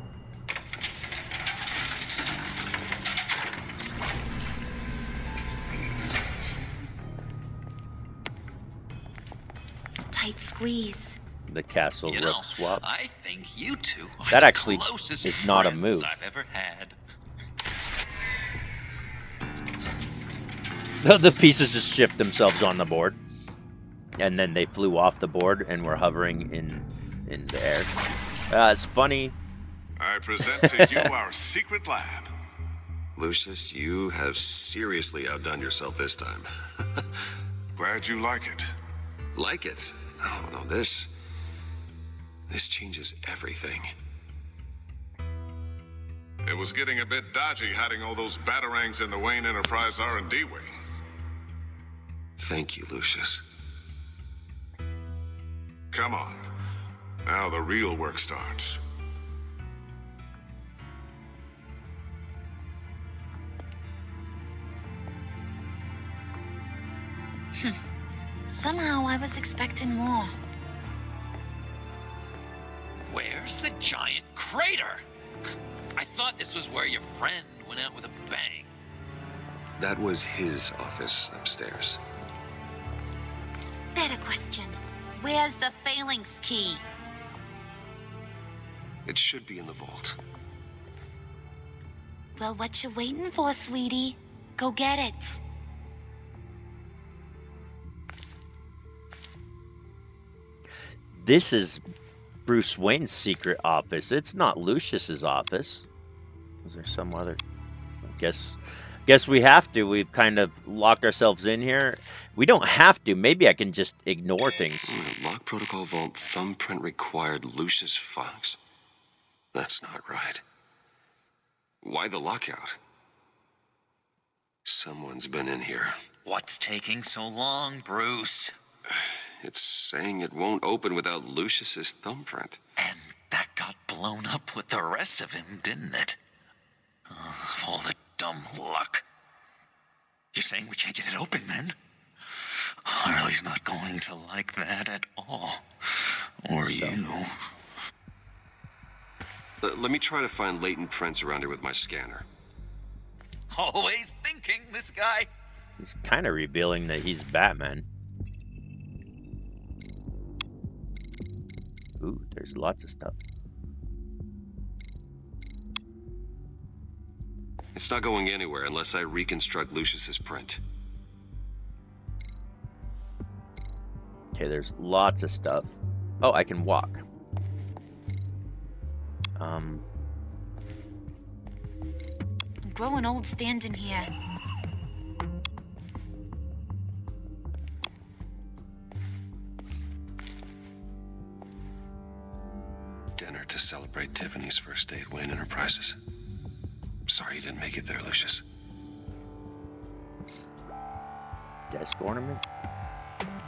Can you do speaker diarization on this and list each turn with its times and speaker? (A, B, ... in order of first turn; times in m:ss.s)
0:10.1-0:11.2 A
0:11.5-0:12.8 B
0:12.1-0:17.0 C
0:14.3-0:16.2 B
0:21.0-0:23.2 B
0:24.2-0:27.9 B
0:28.5-0:29.3 B
0:30.0-0:32.3 D
0:30.6-0:31.1 B
0:33.2-0:37.1 E
0:37.8-0:38.7 D
0:39.3-0:41.1 E
0:42.5-0:43.9 E
0:46.4-0:50.7 D
0:52.4-0:53.4 E
0:55.9-0:56.4 D
0:57.2-0:58.8 D
1:08.5-1:10.3 A
1:13.0-1:15.0 C
1:16.0-1:18.7 C
1:19.8-1:22.0 E
1:23.9-1:26.8 A
1:29.0-1:30.2 E
1:32.4-1:35.4 A
1:41.1-1:41.8 B
1:42.4-1:45.9 B
1:46.6-1:47.4 B
1:48.1-1:55.0 B
1:54.8-1:58.6 E
1:59.5-2:00.4 E
2:01.8-2:02.8 E
2:04.6-2:06.0 E
2:06.2-2:08.5 C
2:08.9-2:12.6 E
2:12.8-2:16.2 C
2:17.1-2:19.0 C
2:20.3-2:21.8 C
2:22.8-2:27.3 C
2:26.6-2:27.0 B
2:29.6-2:32.3 E
2:33.5-2:35.3 C
2:35.8-2:37.8 B
2:42.0-2:43.2 B
2:47.8-2:50.6 E
2:54.3-2:57.0 B
2:59.4-2:59.8 B
3:02.6-3:04.1 A
3:13.2-3:16.0 E
3:17.1-3:18.4 E
3:21.7-3:22.4 B